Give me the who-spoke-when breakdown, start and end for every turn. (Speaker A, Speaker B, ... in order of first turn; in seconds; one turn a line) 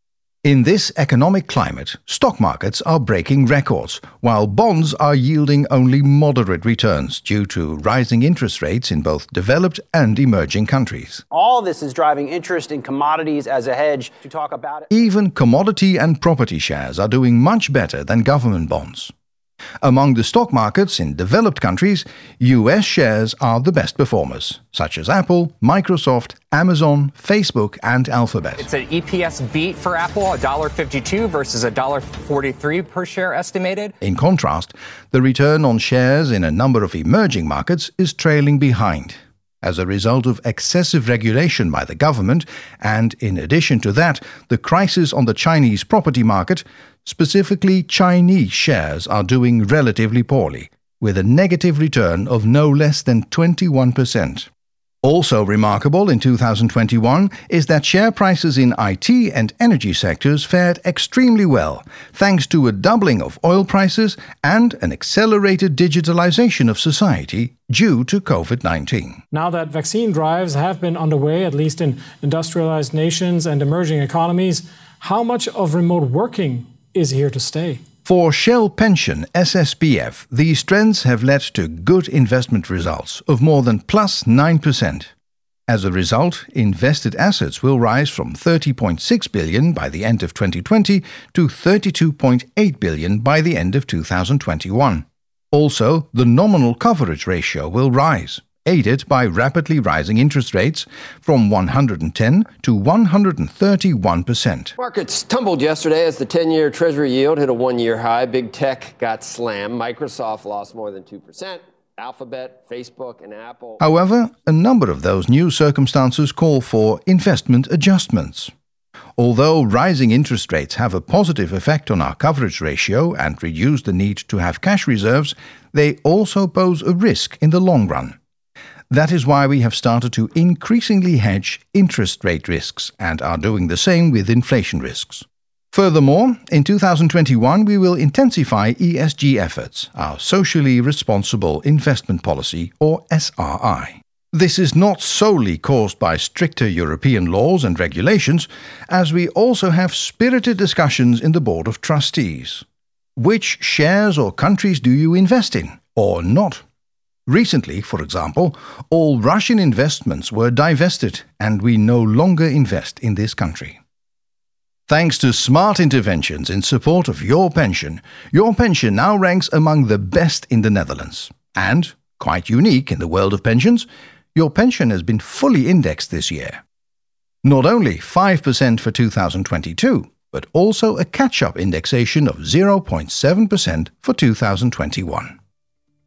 Speaker A: 0.4-11.2
Speaker B: 11.3-14.9
Speaker A: 14.9-19.1
Speaker A: 19.8-28.7
Speaker C: 28.6-33.9
Speaker A: 34.0-54.5
Speaker A: 55.0-69.2
Speaker D: 69.3-77.8
Speaker A: 78.0-85.1
Speaker A: 85.7-104.7
Speaker E: 104.8-113.8
Speaker A: 113.8-118.5
Speaker A: 119.2-128.2
Speaker A: 128.9-152.6
Speaker A: 153.2-156.6
Speaker A: 157.3-163.8
Speaker A: 164.9-176.6
Speaker A: 177.4-185.4